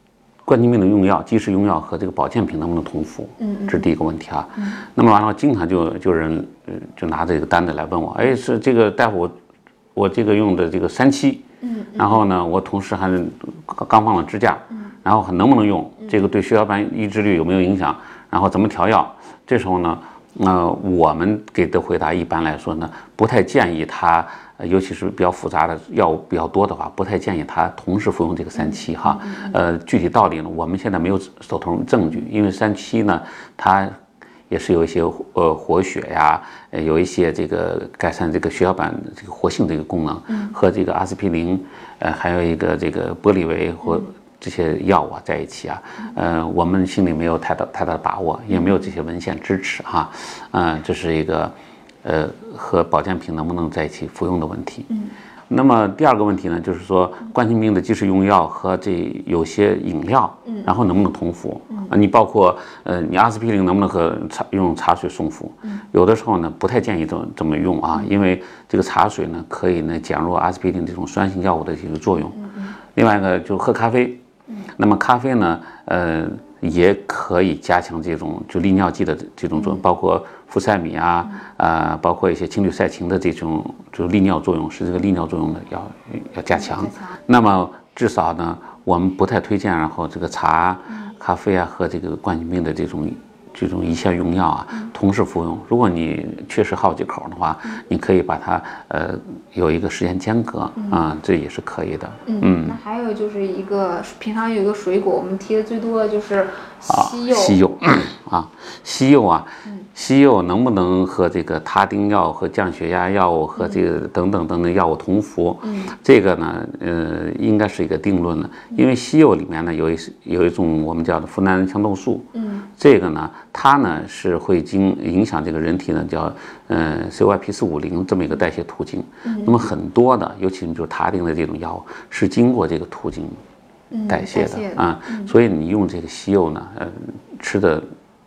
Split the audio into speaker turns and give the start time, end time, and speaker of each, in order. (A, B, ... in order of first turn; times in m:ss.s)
0:00.4-0:09.3 A
0:03.4-0:03.9 B
0:10.0-0:11.4 A
0:11.6-0:12.2 B
0:12.0-0:34.0 A
0:28.6-0:29.6 B
0:34.5-0:51.5 A
0:48.5-0:48.8 B
0:52.0-0:54.9 A
0:55.5-1:12.4 A
1:12.3-1:12.8 B
1:13.0-1:14.2 A
1:14.8-1:42.8 A
1:19.6-1:19.8 B
1:26.5-1:27.2 B
1:40.8-1:41.0 B
1:42.3-1:47.6 B
1:46.9-2:13.4 A
1:53.6-1:53.8 B
1:55.6-1:55.9 B
2:02.3-2:02.7 B
2:09.2-2:09.7 B
2:13.9-2:15.3 B
2:14.1-2:17.8 A